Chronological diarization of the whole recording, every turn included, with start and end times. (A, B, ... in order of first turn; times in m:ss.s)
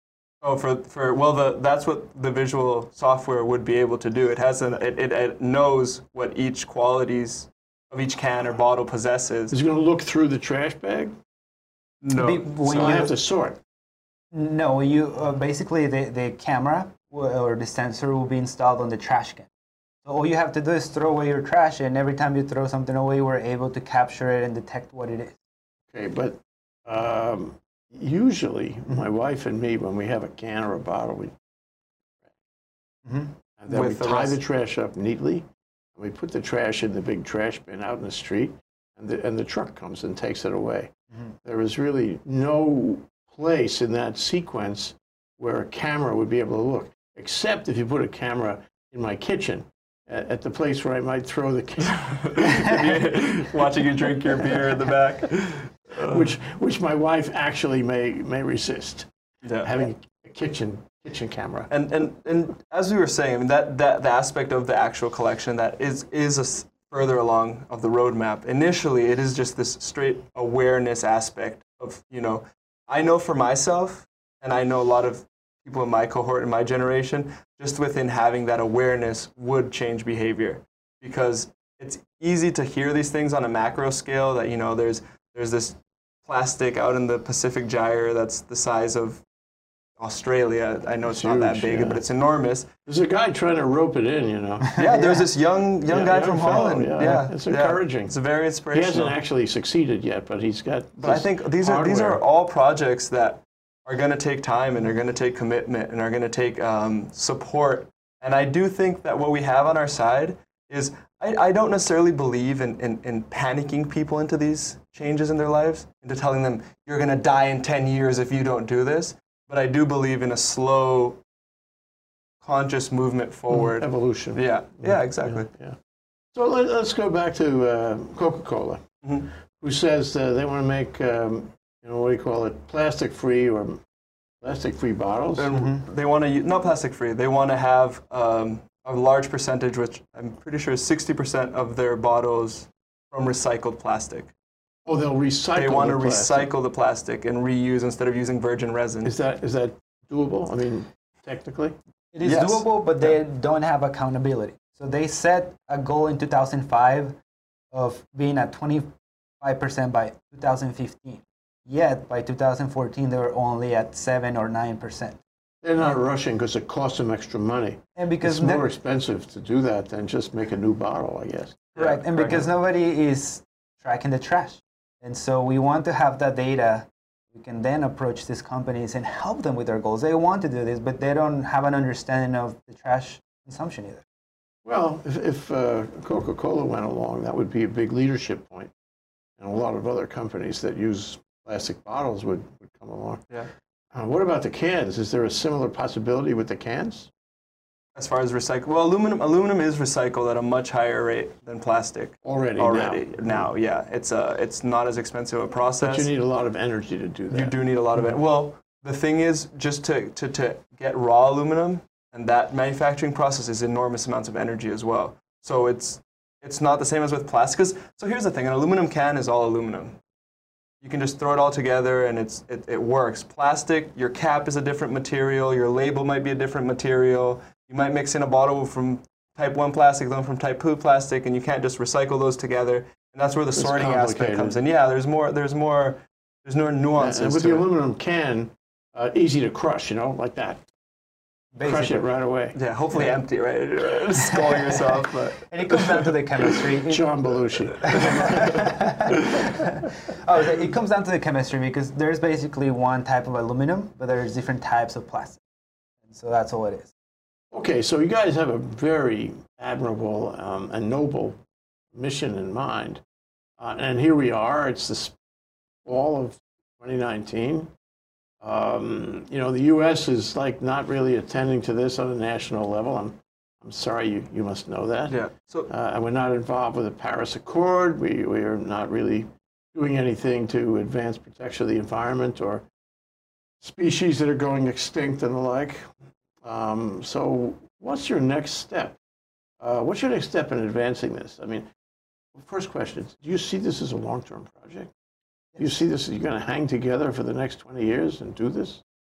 0:00.4-0:09.6 A
0:09.5-0:11.1 B
0:12.0-0:13.1 A
0:12.2-0:13.1 C
0:12.7-0:13.6 B
0:14.3-0:19.5 C
0:20.0-0:25.4 C
0:25.9-0:31.4 B
0:33.6-0:35.4 B
0:33.7-0:34.4 A
0:36.0-0:52.8 B
0:51.9-0:56.3 A
0:56.0-0:59.1 B
0:59.4-0:59.8 A
0:59.6-1:01.7 B
1:01.7-1:29.2 A
1:30.0-1:32.7 A
1:31.1-1:32.0 B
1:32.9-1:34.7 B
1:34.7-1:35.2 C
1:34.8-1:39.2 A
1:35.9-1:38.1 B
1:38.7-1:42.2 B
1:41.0-2:01.2 A
2:02.4-2:05.5 A
2:03.5-2:05.8 B
2:06.3-2:08.9 B
2:09.0-2:09.3 A
2:09.6-2:13.8 B
2:14.4-2:15.6 B
2:15.4-2:24.3 A
2:15.5-2:15.8 C
2:24.9-2:26.5 B
2:25.6-2:29.1 A
2:29.0-2:31.8 B
2:32.1-2:37.2 C
2:32.2-2:33.1 A
2:37.7-2:38.9 C
2:39.4-2:45.2 C
2:45.6-2:51.7 B
2:48.0-2:48.6 C
2:51.8-2:52.4 A
2:51.8-3:04.0 C
3:04.6-3:08.7 B
3:09.4-3:13.2 B
3:13.9-3:17.1 B
3:18.0-3:26.1 A
3:22.2-3:23.5 B
3:25.8-3:27.5 B
3:27.3-3:40.0 A
3:40.8-3:57.6 A
3:53.6-3:54.6 B
3:57.0-4:00.6 B
4:01.6-4:02.1 C
4:01.6-4:03.1 B
4:02.6-4:06.1 A
4:04.2-4:07.1 C
4:06.9-4:09.1 B
4:07.6-4:15.4 C
4:16.1-4:16.9 C
4:17.5-4:21.4 B
4:21.9-4:23.0 B
4:23.6-4:25.2 B
4:25.8-4:27.7 B
4:28.4-4:35.2 B
4:35.1-4:35.7 A
4:35.7-4:42.6 B
4:43.6-4:45.9 B
4:46.4-4:49.0 B
4:49.6-4:51.7 B
4:52.3-4:54.9 B
4:55.6-4:58.8 B